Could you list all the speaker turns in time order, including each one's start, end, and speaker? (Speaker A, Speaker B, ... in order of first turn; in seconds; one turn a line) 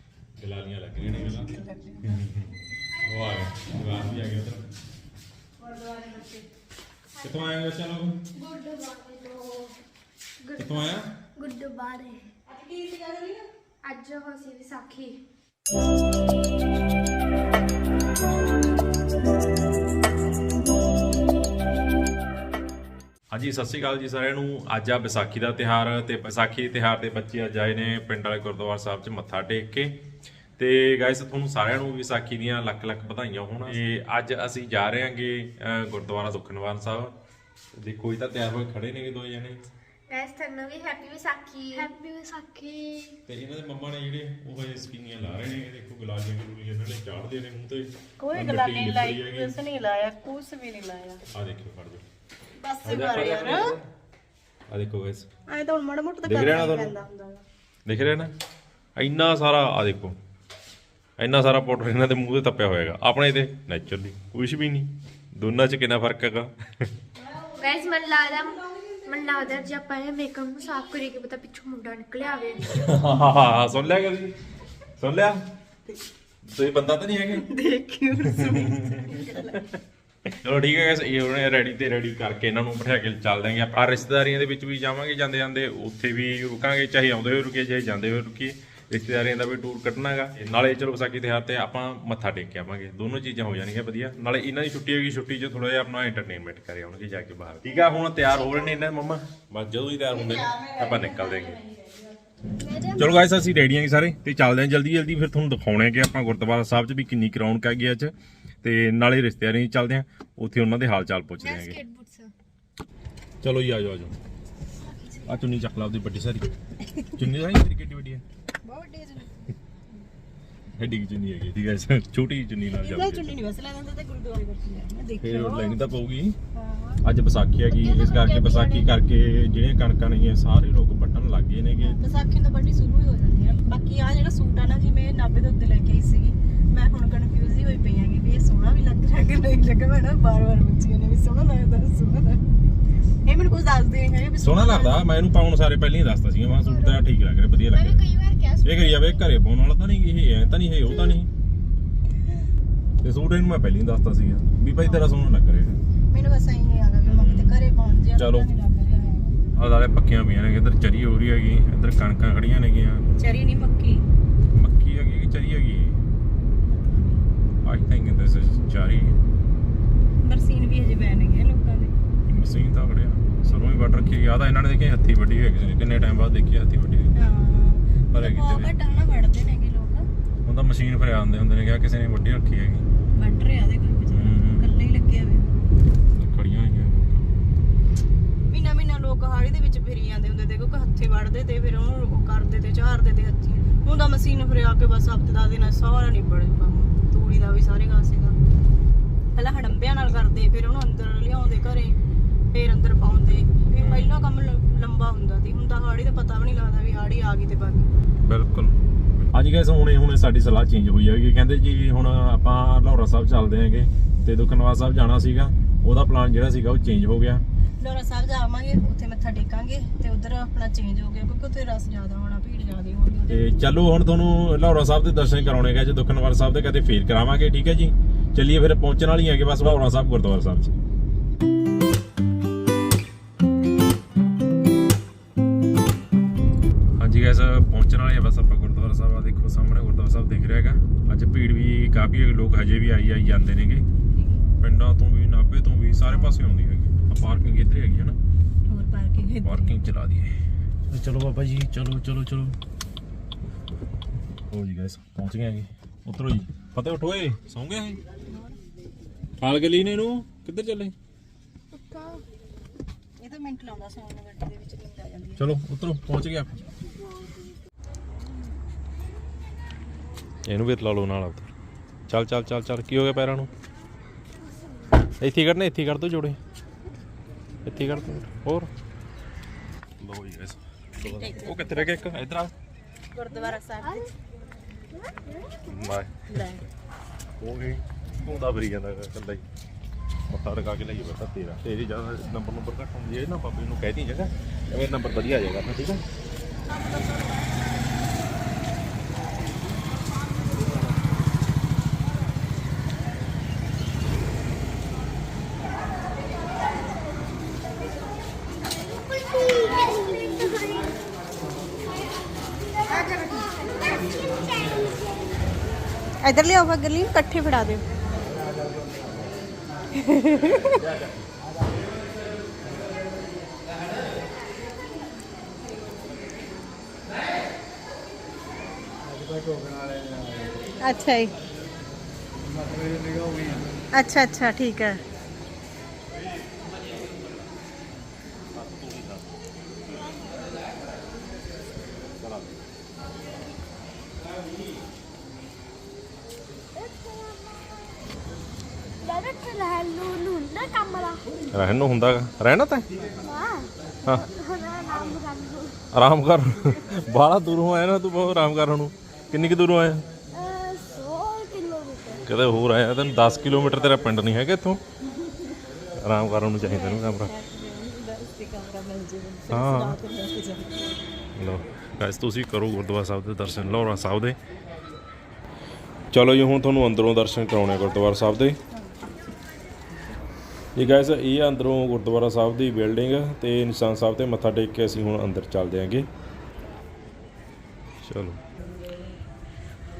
Speaker A: 0.4-4.6
Speaker B: 1.2-2.3
Speaker B: 5.6-6.4
Speaker A: 7.2-8.2
Speaker C: 8.3-9.8
Speaker C: 10.4-12.3
Speaker A: 10.6-11.1
Speaker B: 12.5-13.5
Speaker C: 13.8-15.2
Speaker A: 23.3-29.9
Speaker A: 30.6-37.1
Speaker A: 37.8-39.6
Speaker C: 40.1-43.2
Speaker A: 43.3-49.5
Speaker B: 48.2-51.2
Speaker A: 51.3-52.0
Speaker B: 52.6-53.8
Speaker A: 52.8-53.8
Speaker A: 54.7-55.3
Speaker B: 55.5-57.4
Speaker A: 56.2-56.9
Speaker A: 57.9-58.3
Speaker A: 59.0-60.2
Speaker A: 61.2-66.9
Speaker C: 67.6-72.7
Speaker A: 72.6-74.4
Speaker A: 75.0-75.4
Speaker A: 76.5-77.5
Speaker B: 77.3-79.6
Speaker A: 78.2-79.2
Speaker A: 80.3-101.6
Speaker B: 100.1-101.9
Speaker C: 102.7-103.2
Speaker A: 103.0-111.8
Speaker C: 111.5-112.3
Speaker A: 113.4-114.1
Speaker B: 114.9-115.3
Speaker A: 115.3-116.5
Speaker A: 117.1-118.2
Speaker B: 118.6-119.5
Speaker A: 120.8-123.3
Speaker B: 122.7-125.9
Speaker A: 125.2-126.4
Speaker B: 126.5-127.0
Speaker A: 127.0-132.0
Speaker C: 127.7-128.9
Speaker B: 131.8-142.4
Speaker B: 143.3-145.1
Speaker A: 144.4-148.1
Speaker C: 146.7-147.0
Speaker C: 147.7-148.7
Speaker A: 148.6-151.3
Speaker A: 153.0-155.8
Speaker B: 154.8-155.1
Speaker B: 156.1-159.4
Speaker A: 157.1-157.6
Speaker A: 158.2-158.5
Speaker A: 159.6-163.1
Speaker B: 163.2-164.1
Speaker A: 164.5-166.0
Speaker B: 166.7-167.3
Speaker A: 167.7-169.2
Speaker B: 170.2-171.9
Speaker A: 172.3-177.1
Speaker B: 177.2-180.1
Speaker A: 178.1-178.7
Speaker A: 180.4-182.9
Speaker B: 183.1-185.5
Speaker A: 184.1-184.7
Speaker A: 186.1-187.2
Speaker B: 188.5-198.4
Speaker B: 199.3-202.0
Speaker B: 202.5-207.9
Speaker A: 203.8-204.1
Speaker A: 208.2-208.8
Speaker A: 209.3-217.4
Speaker B: 217.8-223.5
Speaker A: 223.3-230.7
Speaker A: 237.0-243.8
Speaker B: 244.1-244.4
Speaker A: 244.6-248.2
Speaker B: 246.1-246.4
Speaker B: 248.7-249.8
Speaker A: 249.4-250.3
Speaker A: 250.9-252.6
Speaker A: 254.5-258.0
Speaker B: 258.3-258.6
Speaker A: 259.4-260.9
Speaker B: 261.9-262.2
Speaker B: 263.2-265.5
Speaker A: 265.4-266.6
Speaker A: 270.5-271.5
Speaker A: 272.1-273.5
Speaker A: 275.2-276.4
Speaker A: 277.7-278.7
Speaker A: 280.0-282.5
Speaker B: 281.0-282.1
Speaker B: 283.1-284.1
Speaker A: 285.7-286.4
Speaker B: 286.3-286.7
Speaker A: 287.4-289.4
Speaker A: 290.3-296.0
Speaker B: 296.9-297.5
Speaker B: 309.6-310.7
Speaker C: 314.5-314.8
Speaker B: 316.2-317.8
Speaker B: 319.9-320.8
Speaker B: 330.8-331.3
Speaker B: 333.9-335.0
Speaker A: 338.6-339.3
Speaker A: 342.2-342.6
Speaker C: 346.8-347.6
Speaker C: 349.1-351.2
Speaker A: 351.5-352.9
Speaker C: 353.2-355.8
Speaker A: 355.9-360.1
Speaker C: 360.4-362.1
Speaker A: 362.3-364.8
Speaker A: 366.0-367.3
Speaker B: 366.6-371.0
Speaker A: 369.5-370.0
Speaker A: 371.4-374.4
Speaker A: 376.1-378.6
Speaker A: 380.8-386.1
Speaker A: 388.0-388.4